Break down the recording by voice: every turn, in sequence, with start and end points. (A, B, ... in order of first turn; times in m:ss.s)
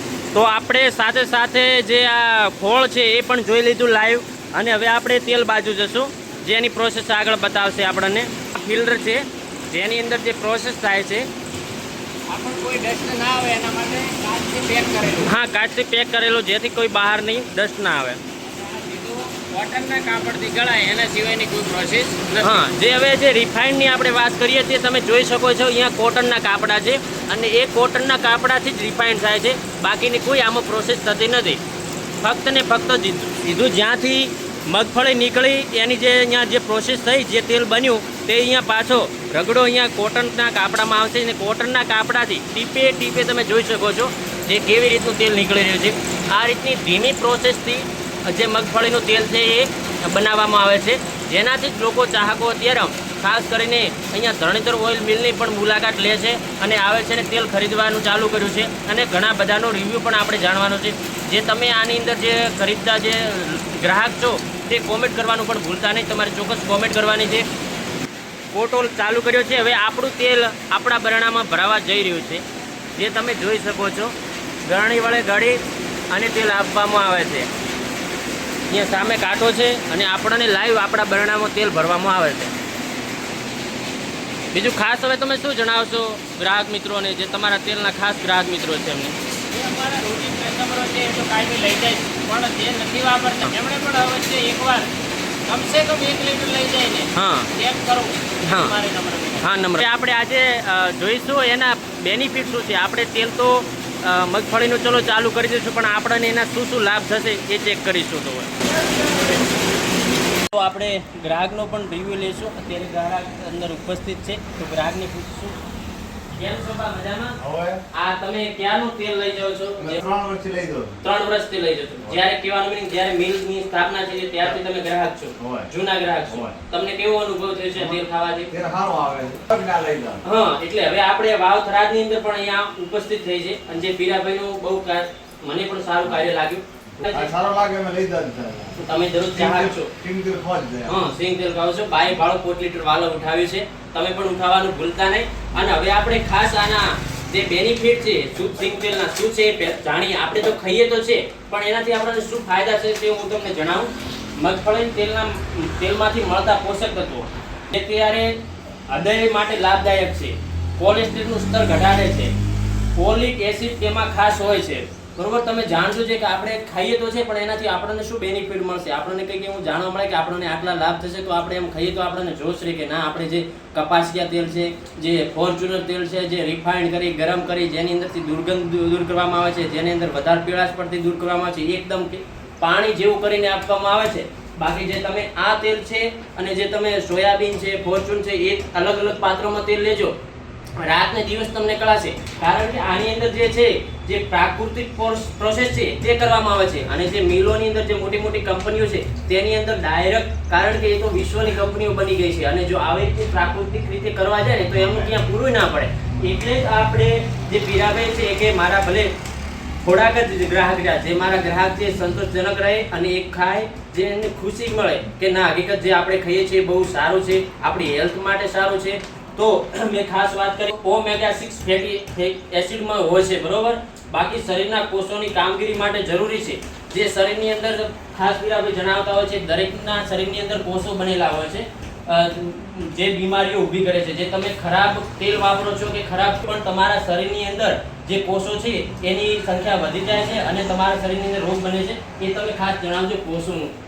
0:00.3-0:11.3 A
0:12.3-0:15.3 B
0:15.2-0:18.2 A
0:18.4-0:22.6 B
0:22.4-0:31.6 A
0:32.2-1:07.5 A
1:08.5-1:12.4 A
1:12.9-1:14.1 A
1:14.6-1:17.5 A
1:18.7-1:22.5 A
1:24.5-1:29.2 A
1:29.5-1:34.9 B
1:35.5-1:39.5 B
1:37.1-1:37.5 A
1:38.4-1:38.8 A
1:39.4-1:49.1 A
1:50.5-1:55.6 A
1:56.3-1:57.4 A
1:57.4-1:57.8 C
1:57.9-2:00.0 A
1:59.8-2:01.0 C
2:01.0-2:08.5 A
2:05.4-2:05.7 C
2:06.3-2:06.5 C
2:08.5-2:10.2 C
2:10.2-2:17.3 A
2:17.0-2:18.8 C
2:18.8-2:19.9 A
2:19.3-2:21.0 C
2:20.8-2:38.3 A
2:38.9-2:42.3 A
2:43.0-3:10.1 A
3:10.8-3:29.1 A
3:29.8-4:03.7 A